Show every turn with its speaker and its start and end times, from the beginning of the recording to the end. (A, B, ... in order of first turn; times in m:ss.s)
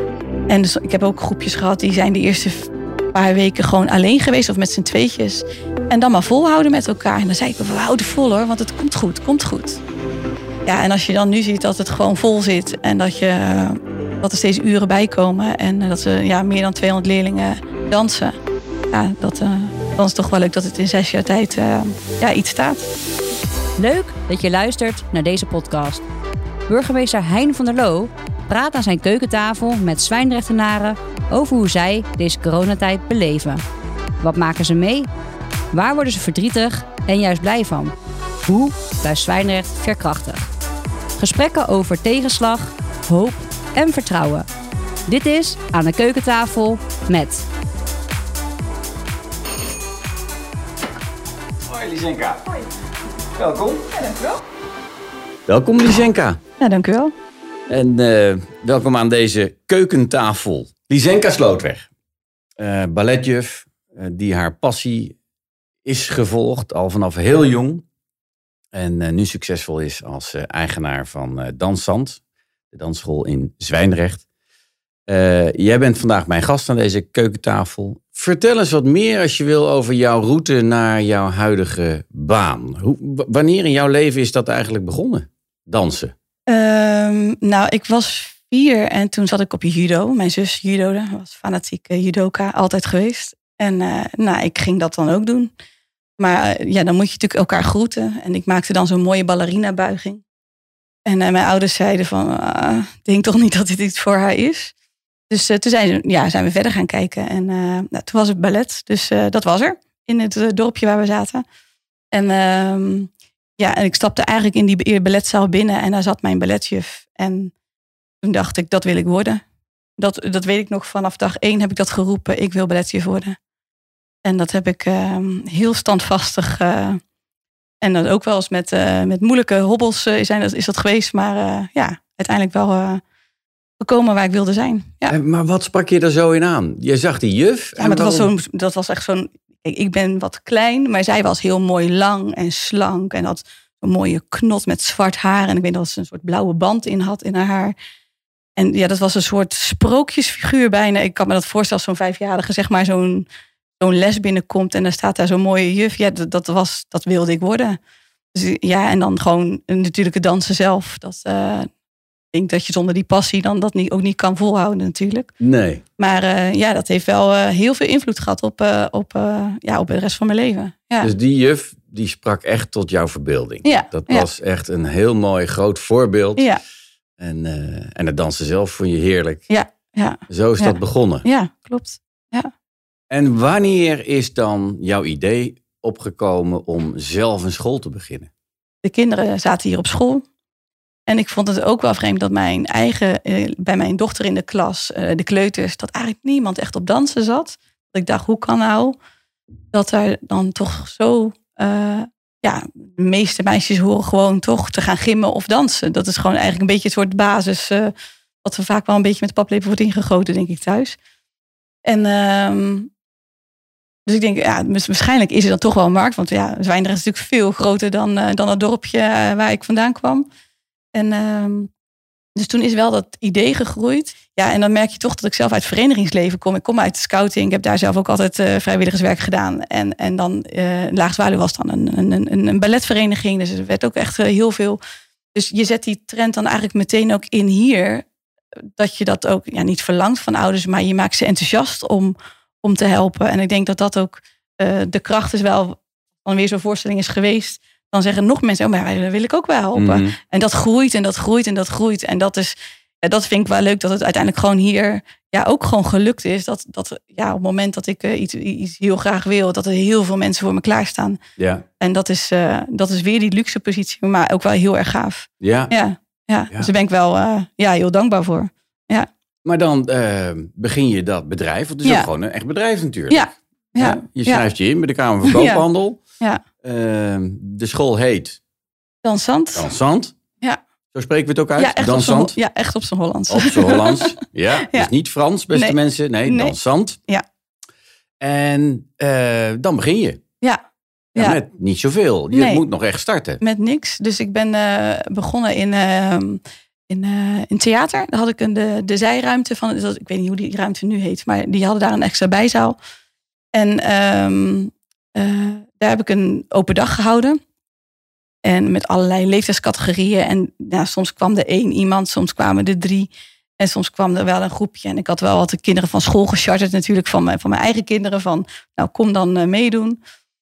0:00.5-0:09.8 A
0:10.7-0:18.4 A
0:18.9-0:22.9 A
0:23.8-0:26.0 B
0:26.7-0:33.6 B
0:34.2-0:35.1 B
0:35.7-0:40.5 B
0:41.2-0:44.5 B
0:45.1-0:47.5 B
0:51.7-0:52.4 C
0:53.4-0:53.9 C
0:54.0-0:54.4 A
0:55.5-0:56.4 C
0:56.6-0:57.1 A
0:57.7-1:01.9 C
1:02.6-1:05.2 C
1:05.8-1:07.8 C
1:08.7-1:12.2 C
1:12.7-1:14.2 C
1:15.1-1:26.1 C
1:26.5-1:35.5 A
1:36.2-1:40.2 A
1:41.1-1:44.7 A
1:45.3-1:51.4 A
1:52.1-1:57.5 A
1:58.2-1:59.4 A
2:00.0-2:03.4 A
2:04.2-2:07.0 A
2:07.8-2:13.0 A
2:13.8-2:15.2 A
2:15.1-2:18.3 C
2:17.8-2:27.8 A
2:28.6-2:33.3 A
2:33.8-2:37.8 A
2:38.3-2:41.7 A
2:42.3-2:45.3 A
2:45.4-2:45.8 C
2:46.0-2:51.1 A
2:51.0-2:56.5 C
2:53.6-2:54.3 A
2:57.2-2:59.5 C
2:59.5-3:02.5 A
3:00.3-3:01.3 C
3:03.1-3:08.3 C
3:08.8-3:10.2 A
3:11.1-3:19.0 A
3:19.7-3:27.9 A
3:28.4-3:31.0 A
3:31.8-3:32.9 A
3:34.1-3:40.3 A
3:40.9-3:41.7 A
3:42.4-3:54.8 A
3:55.3-3:58.1 A
3:58.8-4:21.2 A
4:09.8-4:10.2 C
4:21.4-4:21.6 C
4:21.8-4:29.1 A
4:25.4-4:25.7 C
4:29.4-4:36.0 C
4:31.8-4:32.1 A
4:33.1-4:34.4 A
4:35.2-4:35.6 A
4:36.6-4:38.4 C
4:39.0-4:39.7 A
4:39.6-4:40.2 C
4:40.9-4:42.4 C
4:41.6-4:44.1 A
4:43.3-4:47.0 C
4:45.5-4:46.6 A
4:48.2-4:50.2 C
4:51.2-4:53.4 C
4:52.3-4:52.6 A
4:53.4-5:02.8 A
5:03.5-5:07.4 A
5:08.4-5:20.0 A